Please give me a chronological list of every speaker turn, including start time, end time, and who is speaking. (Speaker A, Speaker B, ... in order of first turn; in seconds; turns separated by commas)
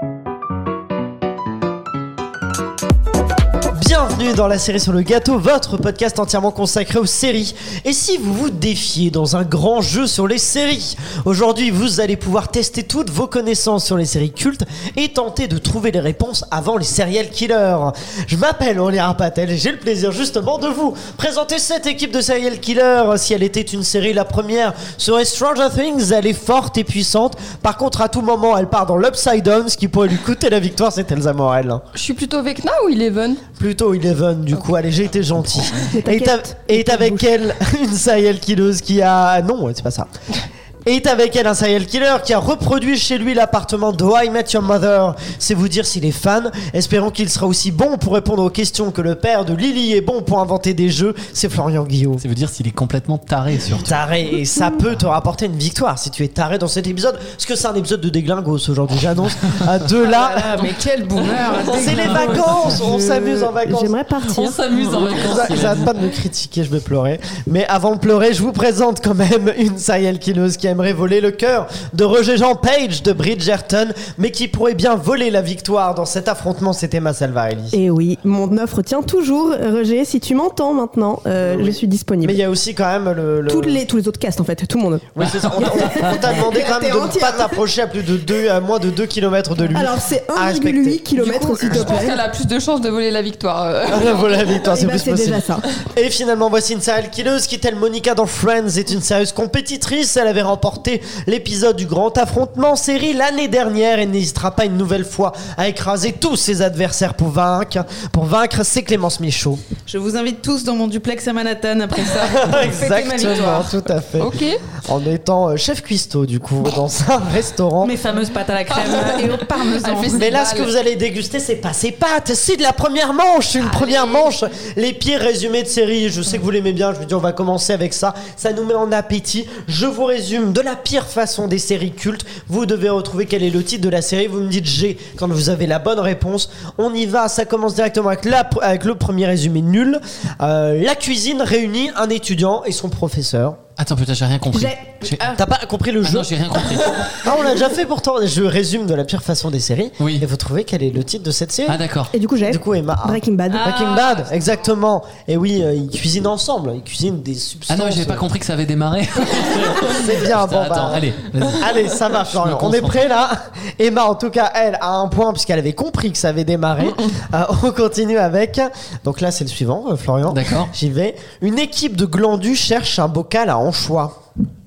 Speaker A: 3.7-31.8, Speaker B: 31.9-33.4, Speaker A: 33.5-40.1, Speaker C: 35.8-37.2, Speaker A: 40.8-52.2, Speaker D: 52.2-53.9, Speaker A: 53.8-60.7, Speaker E: 60.0-63.1, Speaker A: 61.7-63.9, Speaker C: 62.7-64.6, Speaker D: 64.2-65.9, Speaker A: 64.7-77.8, Speaker C: 77.7-82.4, Speaker A: 81.4-83.8, Speaker C: 83.5-87.6, Speaker A: 85.2-92.0, Speaker D: 85.2-86.1, Speaker C: 89.7-92.2, Speaker B: 91.2-94.6, Speaker A: 93.9-109.6, Speaker C: 94.4-95.6, Speaker E: 109.9-113.7, Speaker A: 112.2-118.0, Speaker B: 114.2-114.6, Speaker E: 117.8-120.3, Speaker B: 118.7-120.7, Speaker A: 120.1-143.6, Speaker E: 123.6-124.3, Speaker D: 143.8-145.3, Speaker C: 144.5-144.8, Speaker A: 145.3-146.3, Speaker D: 146.0-147.2, Speaker A: 147.1-151.8, Speaker D: 150.0-150.2, Speaker D: 151.7-152.1, Speaker C: 152.1-153.7, Speaker A: 152.4-158.3, Speaker E: 153.5-154.4, Speaker D: 157.7-163.0, Speaker A: 159.3-174.2, Speaker D: 170.3-170.7